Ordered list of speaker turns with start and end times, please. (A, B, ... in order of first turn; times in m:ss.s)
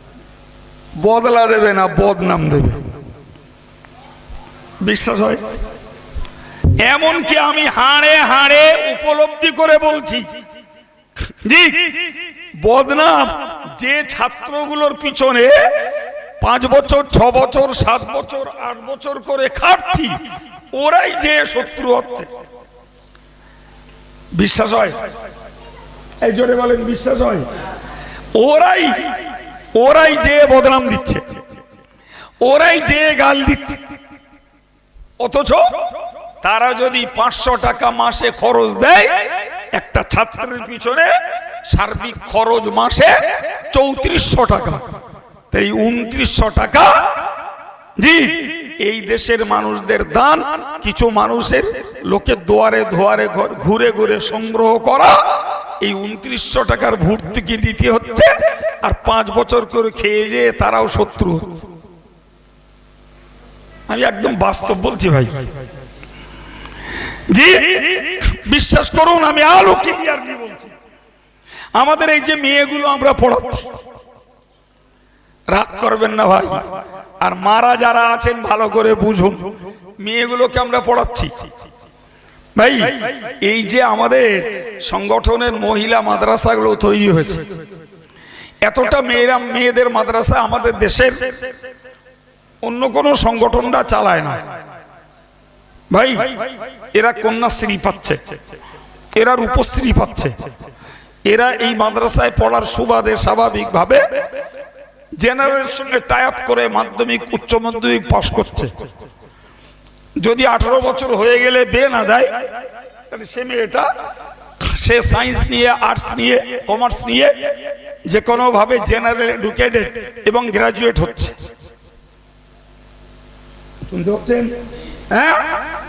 0:01.0-0:02.8 A
0:04.8-0:05.4 A
0:06.8-0:10.3 A
0:11.3-0:20.2 A
0:20.7-0:22.3 A
0:24.3-0:25.0 A
0:26.2-0:27.5 A
0:28.3-0:29.2 A
0:29.8-0:31.2 A
0:32.4-0:33.8 A
0:35.2-0:35.7 A
0:36.4-0:41.1 A
0:41.6-0:44.8 A
0:45.5-0:47.3 A
0:48.0-1:01.6 A
1:03.9-1:05.3 A
1:07.3-1:10.7 A
1:11.8-1:13.7 A
1:15.5-1:16.6 A
1:17.2-1:21.3 A
1:22.6-1:27.5 A
1:28.6-1:31.2 A
1:32.6-1:34.4 A
1:35.9-1:38.2 A
1:39.1-1:40.4 A
1:41.3-1:44.0 A
1:45.2-1:48.7 A
1:50.2-1:52.4 A
1:53.1-1:53.9 A
1:54.6-1:57.5 A
1:58.0-2:01.3 A
2:03.9-2:04.6 A
2:05.1-2:05.6 A